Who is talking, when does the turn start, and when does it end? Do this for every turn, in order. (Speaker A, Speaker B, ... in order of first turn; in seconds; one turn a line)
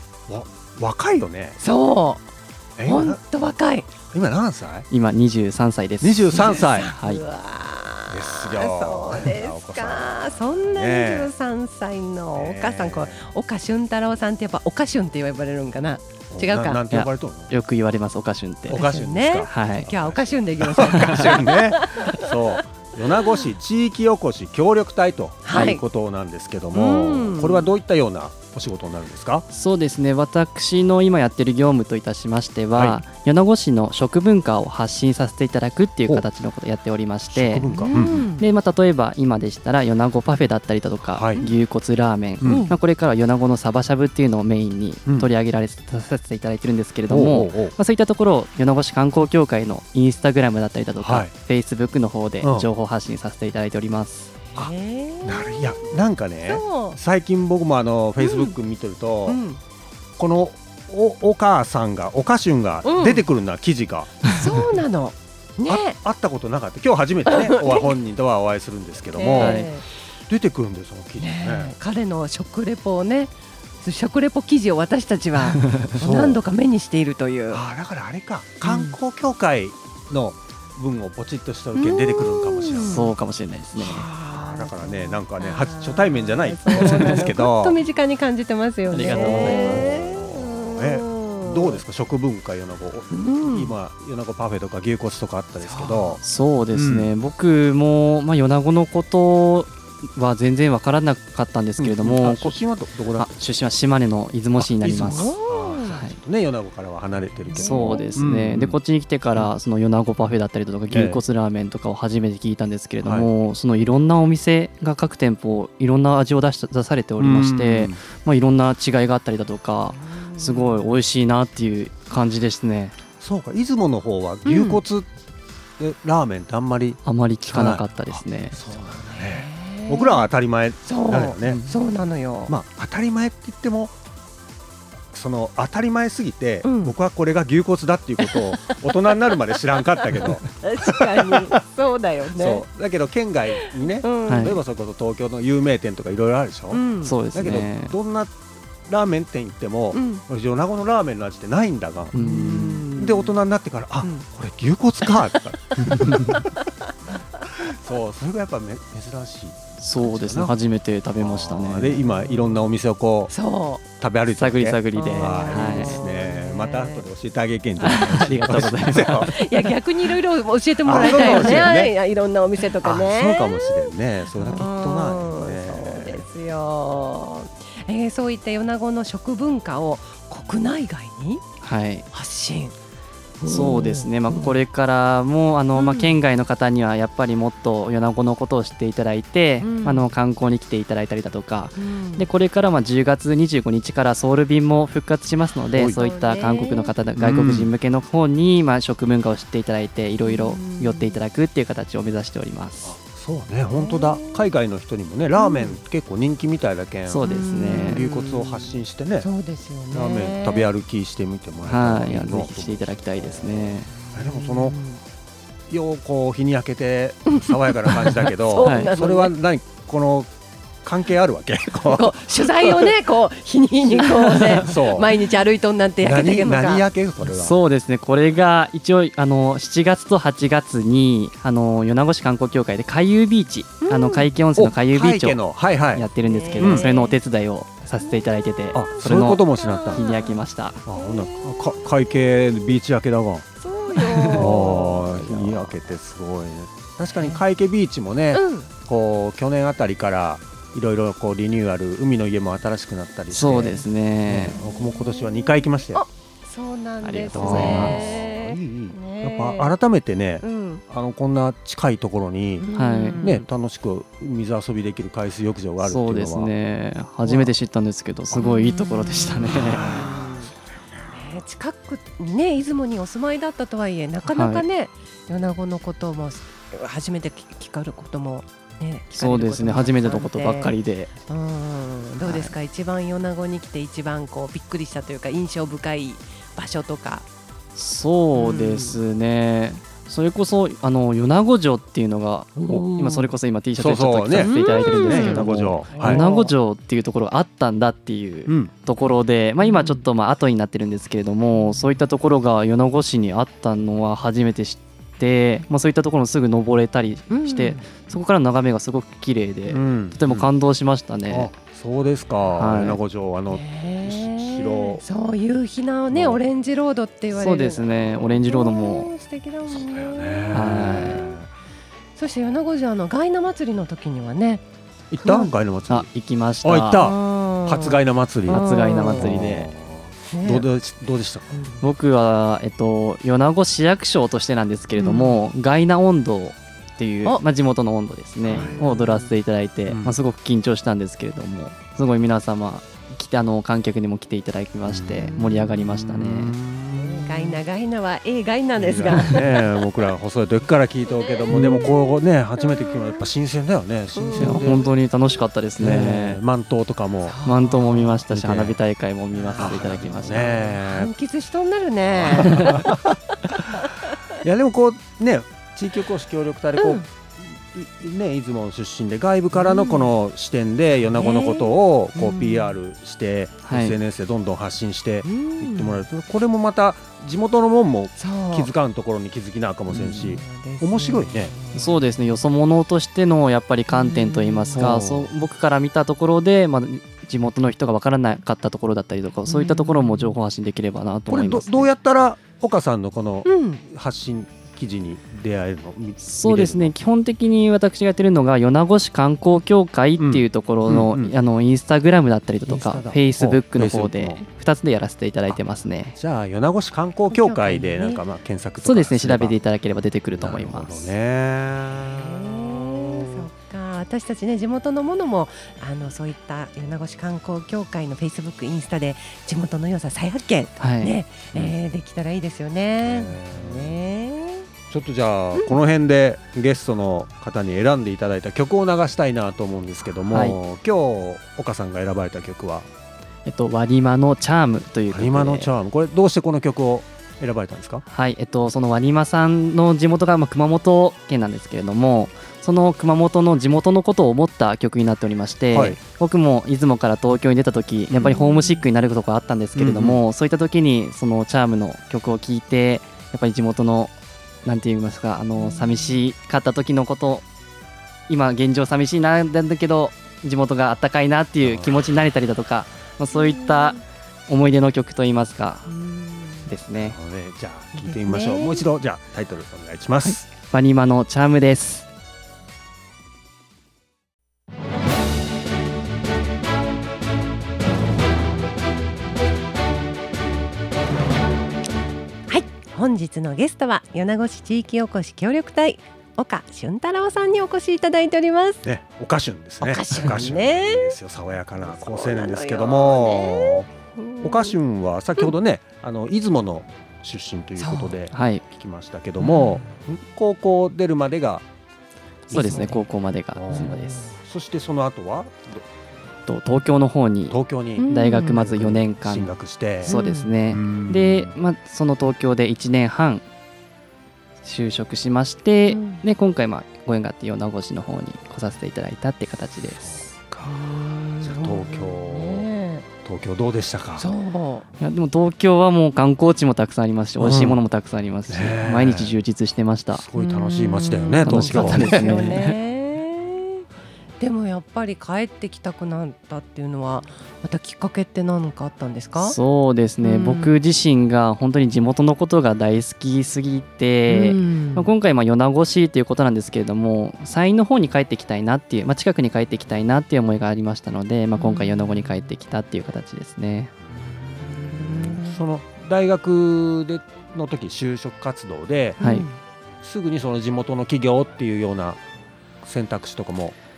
Speaker A: 0.3-1.6
Speaker B: 1.6-2.2
Speaker A: 2.8-3.2
Speaker B: 2.9-3.9
Speaker A: 4.1-4.9
Speaker C: 4.9-7.2
Speaker A: 6.0-6.9
Speaker B: 6.3-16.9
Speaker A: 8.1-11.3
Speaker A: 12.3-13.2
Speaker A: 16.3-17.5
Speaker C: 16.9-18.9
Speaker B: 18.7-22.6
Speaker A: 18.7-29.5
Speaker C: 19.4-19.9
Speaker C: 21.0-21.2
Speaker B: 25.4-25.8
Speaker B: 26.7-27.7
Speaker C: 29.5-54.3
Speaker A: 32.8-33.0
Speaker A: 37.3-38.3
Speaker B: 37.6-38.5
Speaker A: 41.1-41.4
Speaker A: 42.4-42.7
Speaker B: 42.4-42.8
Speaker A: 47.1-47.8
Speaker A: 51.0-51.3
Speaker A: 52.4-52.7
Speaker B: 54.5-55.6
Speaker A: 55.2-59.4
Speaker B: 56.5-57.0
Speaker B: 58.2-58.6
Speaker B: 59.3-59.6
Speaker A: 60.2-64.2
Speaker B: 62.8-63.3
Speaker B: 64.3-66.0
Speaker A: 65.7-69.7
Speaker B: 67.3-67.9
Speaker B: 69.1-69.8
Speaker C: 69.4-69.7
Speaker A: 70.3-71.8
Speaker B: 71.2-77.6
Speaker A: 76.0-76.4
Speaker A: 77.5-83.1
Speaker B: 78.6-79.0
Speaker B: 81.8-83.1
Speaker C: 82.8-84.1
Speaker B: 83.8-91.8
Speaker A: 83.8-87.8
Speaker C: 86.7-87.2
Speaker C: 88.9-89.9
Speaker A: 89.0-96.2
Speaker B: 93.1-93.8
Speaker B: 95.6-96.2
Speaker C: 96.2-102.6
Speaker A: 96.7-97.1
Speaker A: 101.8-103.3
Speaker C: 103.2-105.3
Speaker A: 104.6-108.8
Speaker B: 105.0-106.0
Speaker C: 105.9-106.2
Speaker B: 107.5-108.2
Speaker C: 107.5-123.0
Speaker A: 110.9-111.2
Speaker A: 113.0-113.3
Speaker A: 117.2-118.0
Speaker B: 119.9-120.9
Speaker A: 123.2-125.1
Speaker B: 124.5-124.8
Speaker A: 125.8-131.6
Speaker C: 127.0-128.6
Speaker B: 129.1-130.3
Speaker B: 130.8-132.5
Speaker C: 131.4-131.8
Speaker A: 132.5-133.9
Speaker A: 135.1-141.5
Speaker B: 136.6-136.9
Speaker B: 138.2-138.9
Speaker B: 140.0-142.7
Speaker A: 142.3-148.3
Speaker B: 143.6-144.6
Speaker C: 144.3-144.6
Speaker B: 146.7-147.2
Speaker C: 147.0-147.9
Speaker A: 148.9-156.4
Speaker B: 149.9-150.2
Speaker C: 152.1-152.9
Speaker B: 152.2-153.3
Speaker B: 155.0-156.5
Speaker C: 155.8-156.4
Speaker A: 157.6-160.6
Speaker C: 159.8-162.1
Speaker A: 161.2-163.3
Speaker B: 163.3-163.8
Speaker A: 164.0-169.3
Speaker C: 164.4-166.0
Speaker B: 164.9-167.0
Speaker C: 167.8-169.4
Speaker B: 169.1-181.4
Speaker A: 170.8-171.9
Speaker C: 170.9-171.7
Speaker A: 172.8-176.2
Speaker C: 181.6-182.1
Speaker B: 182.1-182.7
Speaker B: 183.4-184.6
Speaker C: 183.4-203.0
Speaker B: 185.8-186.2
Speaker B: 189.6-190.1
Speaker B: 191.8-192.3
Speaker A: 195.7-196.0
Speaker B: 195.9-197.0
Speaker A: 197.2-197.7
Speaker B: 200.2-201.2
Speaker A: 202.8-209.3
Speaker B: 203.7-204.5
Speaker B: 205.4-205.8
Speaker C: 207.1-208.1
Speaker B: 207.2-210.7
Speaker A: 209.9-214.8
Speaker C: 211.7-213.9
Speaker B: 214.0-215.0
Speaker A: 215.7-220.3
Speaker B: 217.3-219.3
Speaker C: 218.6-218.9
Speaker A: 220.8-222.9
Speaker B: 221.8-226.9
Speaker C: 224.0-224.6
Speaker A: 224.6-225.1
Speaker A: 226.0-227.6
Speaker C: 227.2-235.4
Speaker B: 233.8-234.3
Speaker A: 234.6-236.9
Speaker C: 235.9-240.8
Speaker B: 236.2-237.2
Speaker B: 238.0-241.8
Speaker A: 238.7-240.0
Speaker A: 240.9-243.5
Speaker B: 243.6-244.9
Speaker C: 244.0-245.8
Speaker A: 244.3-256.0
Speaker B: 247.1-247.4
Speaker B: 248.3-248.7
Speaker C: 253.3-254.6
Speaker B: 253.4-253.9
Speaker B: 254.4-259.8
Speaker C: 257.0-258.1
Speaker A: 257.3-262.7
Speaker B: 260.4-260.8
Speaker B: 262.6-263.3
Speaker C: 262.8-263.4
Speaker A: 263.2-266.5
Speaker C: 265.8-269.8
Speaker B: 267.2-267.5
Speaker B: 268.3-270.5
Speaker A: 269.5-270.5
Speaker B: 271.1-280.7
Speaker C: 274.3-274.6
Speaker C: 279.1-281.1
Speaker B: 281.3-287.3
Speaker C: 282.2-282.5
Speaker C: 287.8-311.5
Speaker B: 288.3-289.0
Speaker B: 292.6-293.3
Speaker A: 293.8-296.2
Speaker B: 294.3-296.5
Speaker B: 299.6-300.1
Speaker B: 301.5-301.9
Speaker B: 307.3-307.8
Speaker A: 309.7-310.5
Speaker A: 311.3-315.0
Speaker C: 312.6-313.0
Speaker B: 313.5-321.4
Speaker A: 316.1-316.4
Speaker C: 317.3-319.1
Speaker A: 319.7-321.5
Speaker C: 320.5-321.3
Speaker B: 322.2-324.6
Speaker A: 325.1-326.1
Speaker B: 325.2-325.5
Speaker C: 325.9-327.0
Speaker A: 326.6-331.5
Speaker B: 326.9-329.4
Speaker C: 328.5-329.7
Speaker B: 330.3-330.7
Speaker B: 331.5-331.8
Speaker C: 331.8-346.5
Speaker B: 335.0-335.4
Speaker B: 338.4-339.3
Speaker A: 338.4-338.8
Speaker A: 339.9-340.2
Speaker A: 344.8-347.6
Speaker B: 347.0-349.9
Speaker A: 348.8-354.9
Speaker B: 351.1-353.3
Speaker B: 354.1-354.9
Speaker C: 354.4-356.4
Speaker A: 355.8-357.4
Speaker B: 357.2-358.2
Speaker C: 357.4-360.5
Speaker A: 358.3-358.8
Speaker B: 359.3-363.1
Speaker A: 359.6-361.1
Speaker A: 362.1-363.2
Speaker A: 364.4-381.6
Speaker B: 366.8-367.1
Speaker B: 369.5-370.1
Speaker B: 370.9-372.8
Speaker C: 373.6-374.0
Speaker B: 375.2-376.1
Speaker B: 378.2-378.7
Speaker B: 379.9-382.4
Speaker C: 381.7-391.9
Speaker B: 383.9-384.9
Speaker A: 384.7-385.3
Speaker B: 389.5-390.4
Speaker A: 391.3-396.9
Speaker B: 393.4-393.8
Speaker C: 396.2-406.2
Speaker A: 400.2-401.3
Speaker A: 402.7-404.4
Speaker A: 406.2-409.6
Speaker B: 407.3-408.2
Speaker C: 408.8-411.1
Speaker A: 410.4-413.5
Speaker B: 412.1-424.7
Speaker C: 420.8-421.2
Speaker A: 423.0-424.0
Speaker A: 424.9-432.9
Speaker C: 430.3-430.6
Speaker C: 433.5-435.7
Speaker A: 435.1-438.0
Speaker C: 438.1-454.1
Speaker A: 445.7-446.0
Speaker A: 448.1-448.4
Speaker B: 448.2-448.9
Speaker A: 449.8-450.2
Speaker C: 454.6-457.4
Speaker B: 455.6-456.2
Speaker C: 458.3-465.9
Speaker A: 461.6-462.0
Speaker B: 463.3-464.0
Speaker B: 465.9-466.7
Speaker C: 466.7-467.2
Speaker A: 467.0-470.5
Speaker B: 468.0-468.9
Speaker C: 470.2-472.1
Speaker B: 482.5-488.8
Speaker A: 488.8-493.9
Speaker B: 489.8-491.2
Speaker B: 491.8-494.8
Speaker A: 494.4-501.6
Speaker B: 497.8-498.2
Speaker C: 498.3-498.6
Speaker B: 499.4-499.9
Speaker A: 502.5-505.8
Speaker B: 502.5-503.0
Speaker C: 502.5-504.2
Speaker B: 503.7-504.4
Speaker C: 506.5-509.5
Speaker A: 507.5-510.1
Speaker B: 508.0-508.6
Speaker C: 510.0-513.5
Speaker B: 510.1-510.5
Speaker A: 510.7-511.6
Speaker C: 514.6-520.2
Speaker B: 515.9-516.2
Speaker A: 520.0-520.8
Speaker B: 520.6-523.1
Speaker A: 521.4-522.7
Speaker A: 523.2-524.3
Speaker B: 524.2-524.9
Speaker C: 525.0-530.2
Speaker A: 527.4-527.8
Speaker A: 528.5-529.4
Speaker A: 530.1-532.5
Speaker B: 530.4-533.9
Speaker C: 531.4-532.8
Speaker B: 534.4-539.6
Speaker C: 539.4-553.9
Speaker B: 540.2-540.8
Speaker B: 544.3-545.1
Speaker B: 551.6-552.5
Speaker A: 554.1-559.2
Speaker B: 554.5-555.6
Speaker C: 559.2-559.5
Speaker B: 559.2-559.6
Speaker A: 560.0-562.2
Speaker A: 562.8-563.8